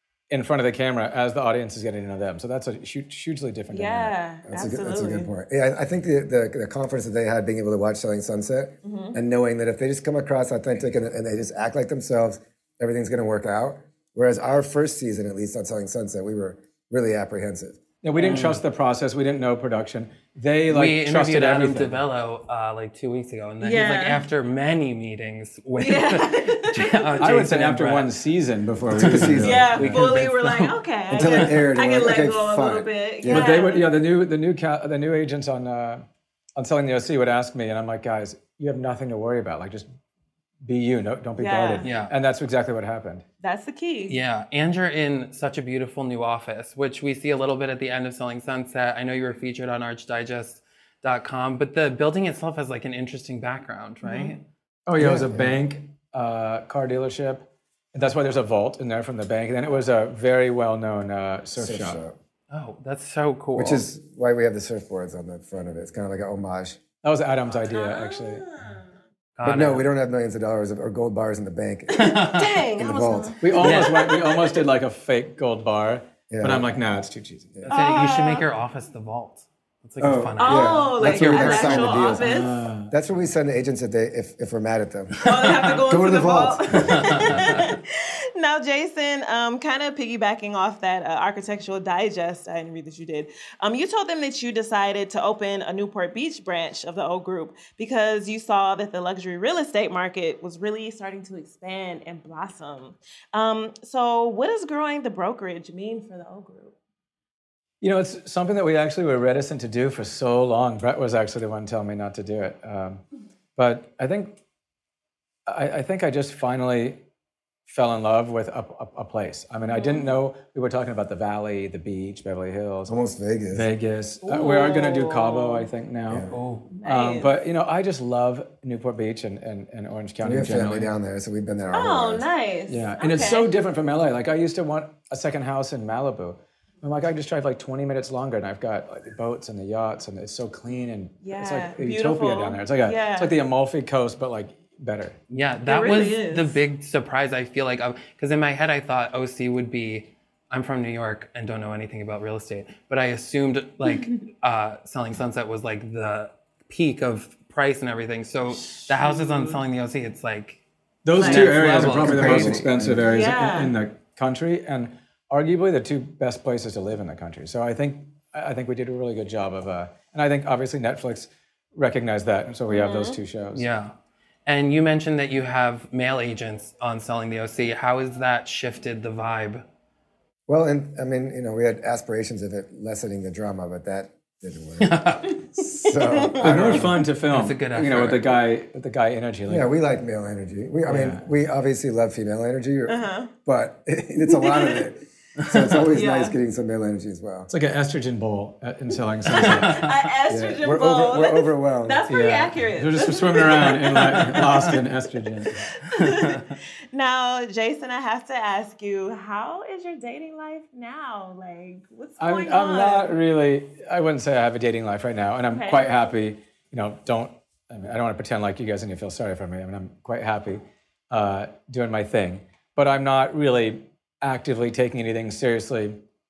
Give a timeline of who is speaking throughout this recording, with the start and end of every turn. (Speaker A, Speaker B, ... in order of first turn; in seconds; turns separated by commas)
Speaker A: 0.3-4.2, Speaker B: 3.7-5.3, Speaker C: 4.5-17.8, Speaker B: 8.8-9.2, Speaker A: 18.0-22.0, Speaker D: 18.2-18.6, Speaker D: 20.7-28.1, Speaker B: 23.6-24.2, Speaker B: 25.8-27.0, Speaker A: 27.2-30.1, Speaker C: 28.8-29.9, Speaker D: 29.0-30.8, Speaker B: 29.4-34.0, Speaker C: 31.1-33.7, Speaker A: 33.2-36.0, Speaker A: 36.6-39.9, Speaker A: 40.6-43.2, Speaker B: 41.4-42.0, Speaker D: 41.8-42.1, Speaker B: 43.4-44.2, Speaker D: 44.1-54.4, Speaker B: 54.0-54.4, Speaker A: 54.9-62.0, Speaker C: 55.0-55.6, Speaker C: 61.6-62.2, Speaker D: 62.5-63.9, Speaker C: 63.5-66.8, Speaker A: 67.0-68.5, Speaker B: 67.7-68.7, Speaker D: 69.4-69.9, Speaker C: 69.5-73.6, Speaker D: 71.9-72.5, Speaker B: 72.3-74.7, Speaker A: 73.4-77.6, Speaker D: 73.6-74.0, Speaker C: 76.3-76.8, Speaker D: 77.7-82.1, Speaker B: 77.7-78.5, Speaker C: 80.0-87.1, Speaker B: 80.4-82.6, Speaker A: 82.2-82.9, Speaker B: 85.2-106.8, Speaker D: 87.1-87.6, Speaker A: 107.8-113.0, Speaker A: 113.6-114.4, Speaker A: 115.5-117.0, Speaker A: 117.7-122.9, Speaker B: 119.7-120.2, Speaker C: 122.9-123.7, Speaker A: 123.5-130.9, Speaker B: 124.2-125.7, Speaker C: 126.1-126.4, Speaker D: 126.3-126.7, Speaker B: 126.7-127.5, Speaker C: 130.2-132.3, Speaker B: 131.7-133.6, Speaker A: 132.7-145.2, Speaker B: 141.2-143.3, Speaker D: 145.3-160.6, Speaker B: 145.7-146.6, Speaker B: 153.9-154.2, Speaker B: 158.9-159.6, Speaker A: 161.0-173.7, Speaker B: 161.2-161.8, Speaker D: 161.2-162.7, Speaker C: 161.9-163.1, Speaker B: 163.0-163.8, Speaker B: 172.7-173.2, Speaker D: 173.5-173.9, Speaker D: 174.5-179.6, Speaker C: 180.5-187.0, Speaker D: 184.8-185.3, Speaker B: 186.0-186.6, Speaker A: 186.4-189.7, Speaker D: 186.6-188.4, Speaker C: 189.5-197.5, Speaker A: 190.9-191.2, Speaker B: 192.9-193.3, Speaker B: 194.3-194.8, Speaker B: 195.9-196.4, Speaker A: 197.5-199.9, Speaker B: 199.3-204.8, Speaker D: 199.6-200.0, Speaker C: 200.3-202.0, Speaker A: 202.1-205.6, Speaker D: 204.0-204.5, Speaker B: 205.9-213.2, Speaker A: 212.2-226.0, Speaker B: 215.4-216.1